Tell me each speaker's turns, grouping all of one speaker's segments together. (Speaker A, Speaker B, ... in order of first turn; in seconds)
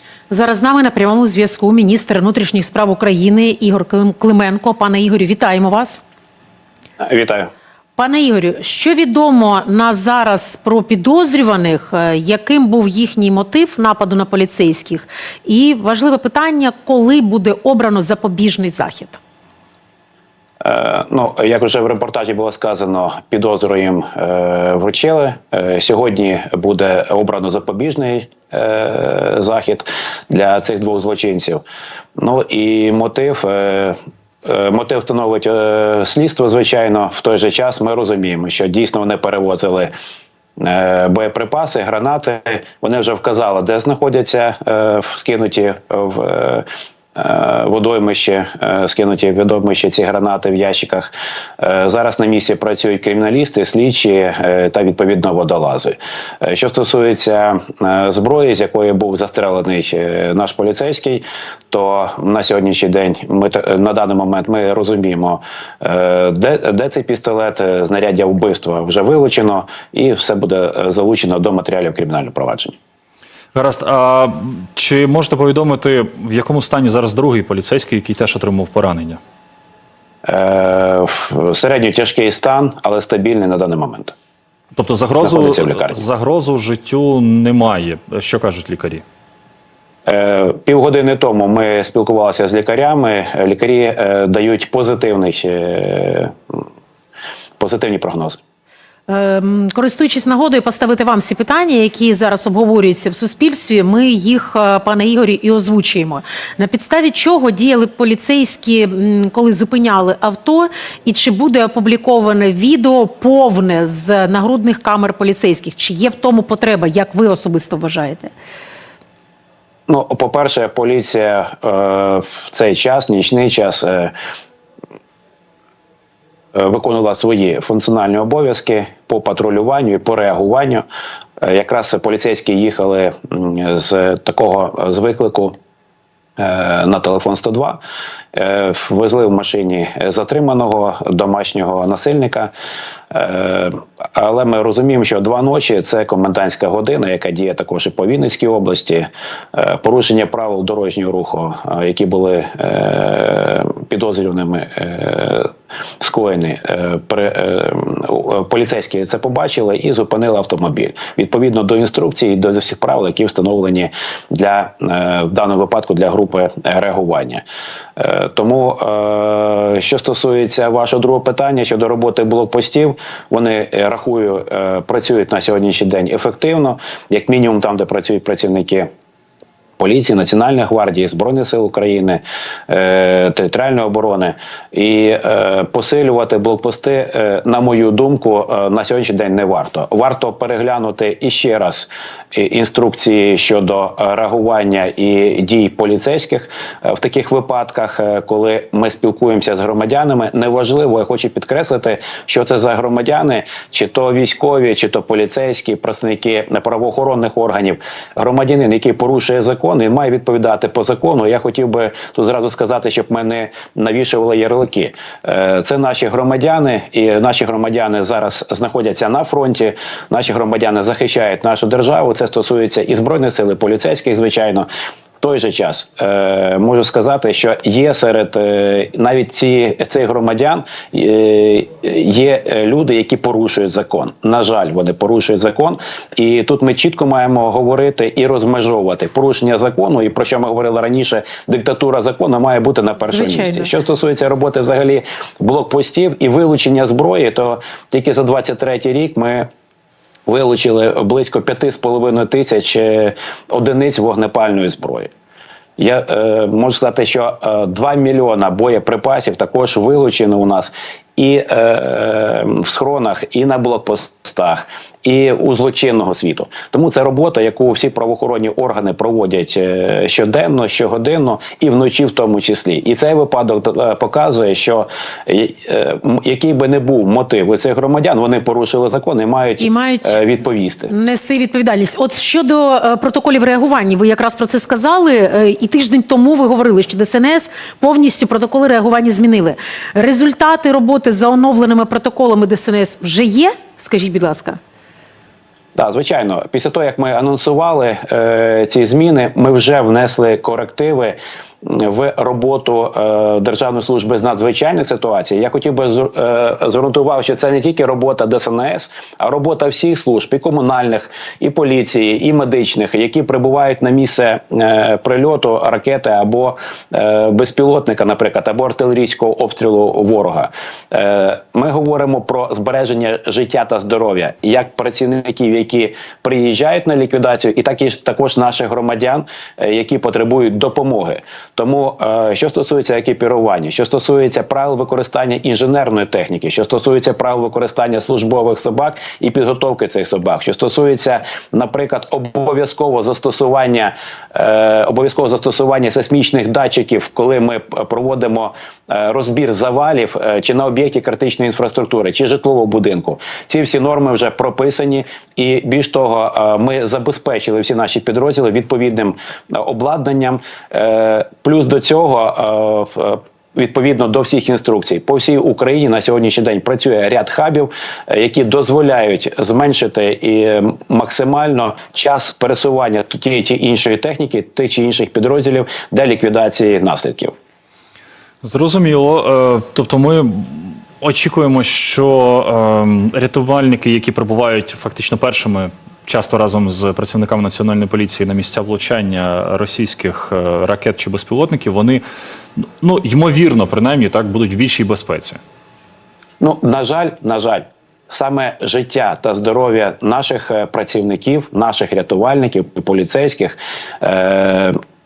Speaker A: 0.3-6.0, 8.0-19.2, 99.1-118.3, 243.0-243.7, 279.6-280.2, 280.9-294.6
Speaker B: 7.0-7.5, 20.6-31.6, 32.2-39.9, 40.6-72.8, 80.2-84.1, 85.2-86.0, 90.1-96.6, 97.6-98.4, 119.9-124.1, 126.5-130.9, 131.4-135.6, 136.4-137.8, 138.3-142.5, 143.1-167.4, 168.0-178.9, 179.8-224.7, 225.2-249.5, 250.3-255.1, 255.8-280.9, 295.8-377.3, 396.4-404.8
Speaker C: 73.5-79.2, 84.7-89.0, 378.4-392.0, 392.6-395.4